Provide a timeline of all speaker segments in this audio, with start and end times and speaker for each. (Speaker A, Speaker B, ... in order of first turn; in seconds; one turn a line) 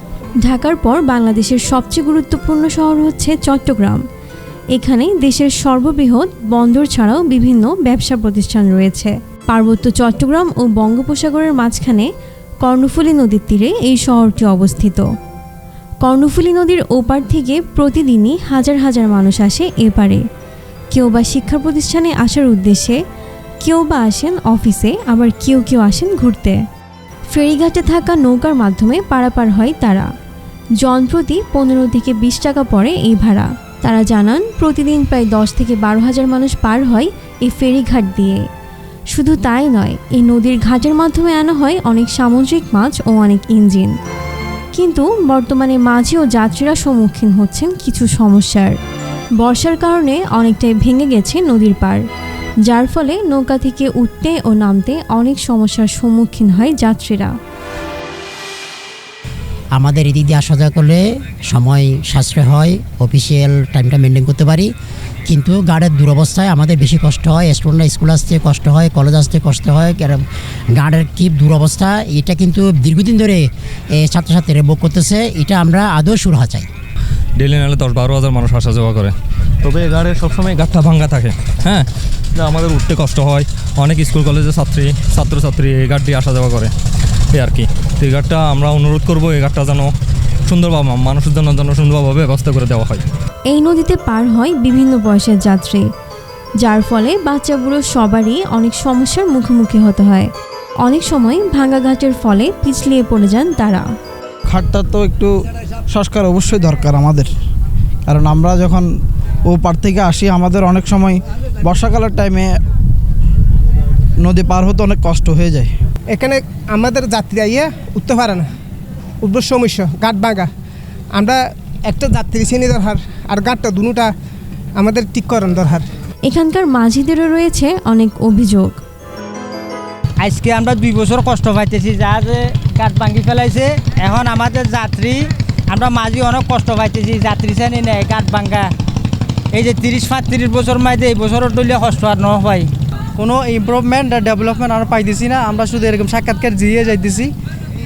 Speaker A: 0.4-4.0
Speaker A: 4.8-12.1
Speaker A: 12.6-15.1
Speaker A: 16.0-20.2
Speaker A: 20.9-23.0
Speaker A: 23.6-26.6
Speaker A: 27.3-30.1
Speaker A: 30.8-38.4
Speaker A: 39.1-43.9
Speaker A: 44.7-48.8
Speaker A: 49.4-52.0
Speaker A: 52.6-57.3
Speaker B: 59.8-64.7
Speaker B: 65.3-76.7
Speaker C: 77.4-86.7
Speaker C: 87.3-89.9
Speaker C: 90.5-93.0
Speaker A: 93.5-95.8
Speaker A: 96.6-100.3
Speaker A: 100.8-103.8
Speaker D: 104.5-105.3
Speaker D: 105.9-107.3
Speaker D: 108.0-108.9
Speaker D: 109.5-112.6
Speaker D: 114.2-115.7
Speaker E: 116.1-118.5
Speaker E: 119.2-120.5
Speaker E: 121.1-124.1
Speaker E: 124.8-125.8
Speaker A: 126.3-128.8
Speaker F: 130.2-138.7
Speaker F: 139.5-142.7
Speaker G: 143.2-147.3